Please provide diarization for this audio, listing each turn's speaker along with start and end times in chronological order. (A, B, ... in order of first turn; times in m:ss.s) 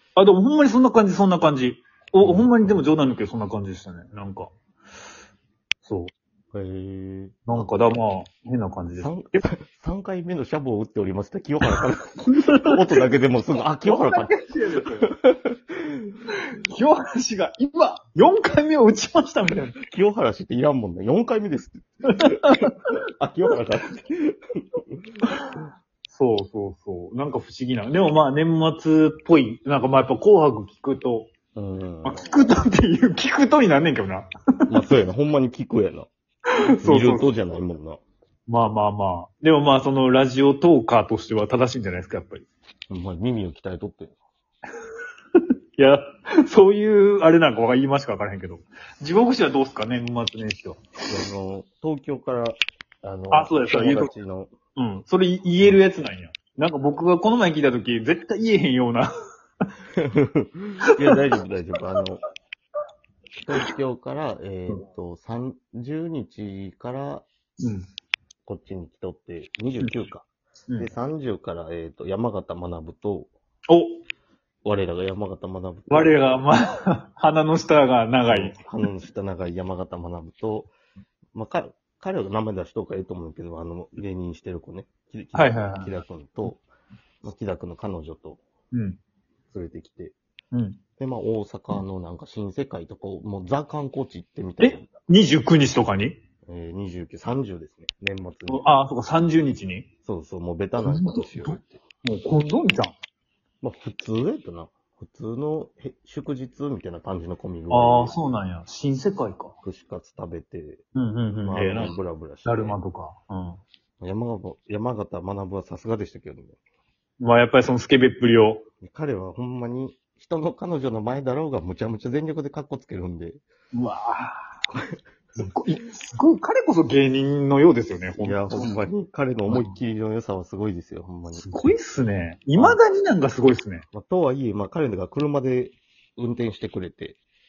0:00.2-0:04.5 A
0:02.2-0:02.8 B
0:05.8-0:06.1 A
0:06.5-0:07.7 B
0:07.5-0:09.5 A
0:09.0-0:16.1 B
0:11.7-0:13.0 A
0:13.8-0:15.1 A
0:16.6-0:19.7 A
0:19.8-0:22.2 B
0:22.1-0:22.9 A
0:23.2-0:24.8 B
0:25.3-0:25.5 A
0:26.1-0:31.3 A
0:31.5-0:32.3 B
0:32.0-0:34.3 A
0:34.7-0:36.1 B
0:36.6-0:38.0 B
0:36.8-0:37.3 A
0:38.5-0:42.4 A
0:42.9-0:44.2 B
0:45.4-0:50.8 A
0:51.1-0:54.5 B
0:53.3-0:54.1 A
0:54.8-0:59.1 A
1:00.0-1:02.2 B
1:03.4-1:07.3 B
1:07.6-1:07.8 A
1:08.4-1:10.2 B
1:10.8-1:13.3 B
1:13.7-1:14.0 A
1:14.6-1:16.4 B
1:15.9-1:18.6 A
1:18.3-1:20.7 B
1:21.3-1:26.6 B
1:25.3-1:26.0 A
1:27.2-1:28.4 B
1:28.7-1:29.0 A
1:29.5-1:30.2 B
1:30.5-1:30.8 A
1:31.0-1:34.9 B
1:34.6-1:36.2 A
1:36.5-1:38.6 B
1:38.5-1:39.9 A
1:40.0-1:41.8 B
1:40.8-1:42.9 A
1:43.6-1:48.2 B
1:47.7-1:49.5 A
1:49.6-1:50.8 B
1:50.9-1:51.9 A
1:51.4-1:52.8 B
1:52.4-1:53.6 A
1:54.0-1:56.6 B
1:57.2-1:58.6 A
1:58.8-2:03.4 B
2:03.7-2:04.5 A
2:05.4-2:08.7 A
2:08.2-2:11.4 B
2:09.5-2:09.8 A
2:11.4-2:13.8 A
2:12.5-2:12.8 B
2:13.9-2:17.2 B